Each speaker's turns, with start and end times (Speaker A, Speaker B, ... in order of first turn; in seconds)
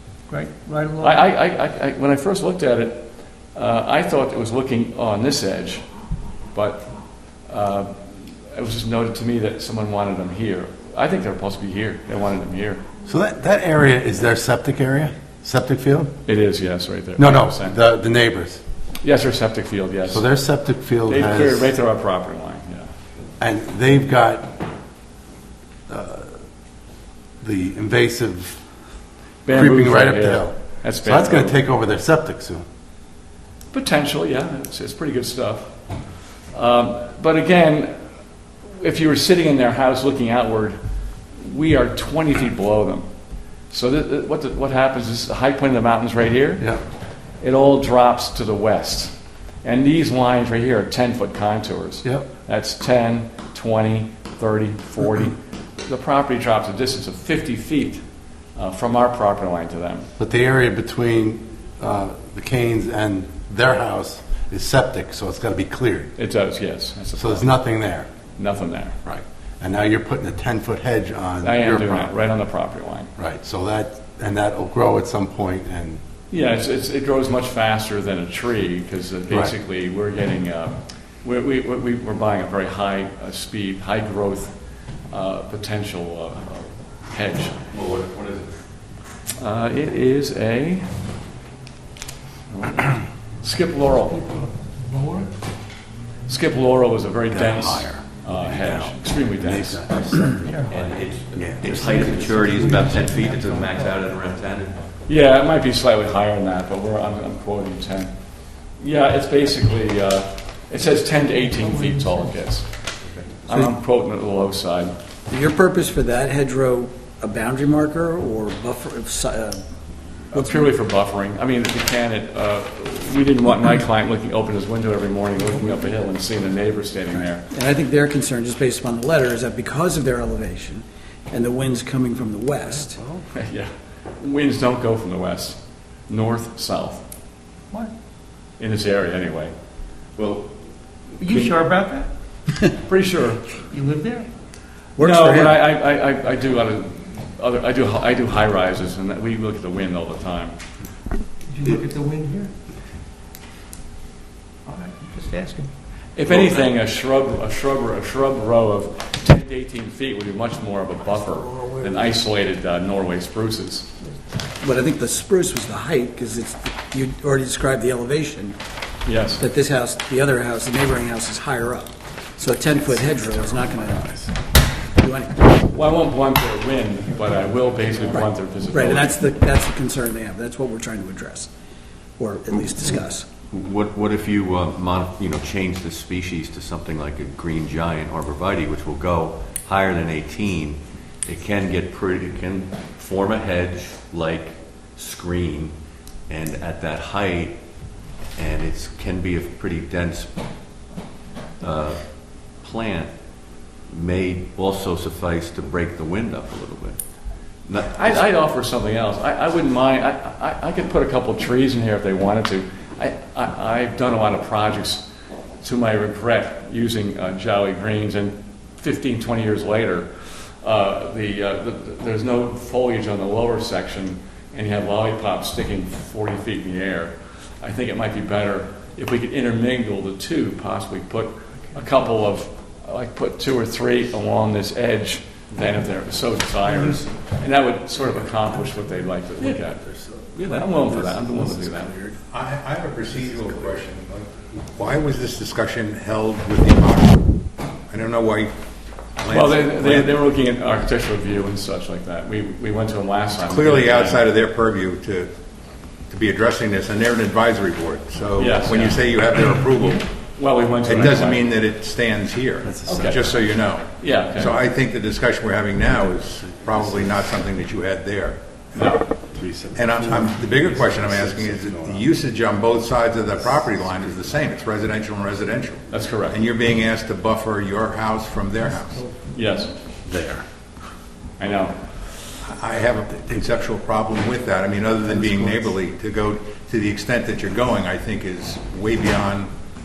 Speaker A: 0.3-1.3, 93.9-95.3, 100.5-100.7, 101.7-104.0, 111.4-112.4, 141.2-142.1, 143.6-144.3, 151.5-152.5, 154.7-155.7, 161.5-161.9, 236.7-237.0
Speaker B: 1.0-5.8, 6.5-6.9, 7.5-12.8, 16.3-17.8, 19.0-20.2, 21.1-22.9, 29.4-31.6, 33.7-35.8, 36.5-38.0, 38.7-40.8, 41.4-43.1, 43.7-46.7, 47.4-58.0, 58.6-60.1, 66.2-67.6, 68.4-69.0, 71.4-73.1, 76.3-84.6, 85.1-87.6, 89.4-90.9, 92.5-94.3, 96.3-99.8, 105.1-108.1, 108.8-112.9, 113.5-114.9, 120.3-127.5, 133.4-137.0, 138.6-139.5, 141.3-141.6, 142.8-143.6, 145.0-150.6, 156.2-163.9, 169.1-169.4, 175.7-179.2, 207.8-215.1, 215.6-239.8, 240.4-242.0, 249.3-254.2, 258.4-259.0, 260.4-261.4, 262.9-263.3, 264.0-264.6, 268.8-269.0, 275.9-276.4, 279.3-279.8, 281.4-281.8
Speaker C: 13.1-16.1, 17.2-18.6, 20.1-21.7, 23.4-24.6, 25.9-26.4, 27.4-28.6, 29.5-32.6, 60.2-66.1, 67.2-68.1, 69.0-72.1, 73.2-76.0, 97.3-100.7, 101.3-102.4, 173.9-174.3, 240.3-241.5, 262.6-263.4, 266.1-267.1, 269.3-272.1, 273.4-274.3, 280.1-280.4, 285.1-285.7
Speaker D: 87.7-88.5, 100.7-104.9, 140.2-140.5, 183.5-195.8, 196.3-197.6, 198.4-200.3, 201.6-202.0, 202.6-203.1, 203.9-207.0, 207.7-208.2
Speaker E: 115.3-119.6, 127.5-133.0, 145.0-145.6, 164.6-168.6, 169.4-174.2, 174.9-175.6, 178.2-181.5, 182.2-183.3
Speaker F: 242.3-248.6, 249.2-250.2, 253.4-255.3, 256.1-260.1, 260.8-269.0, 269.7-279.1, 282.4-289.5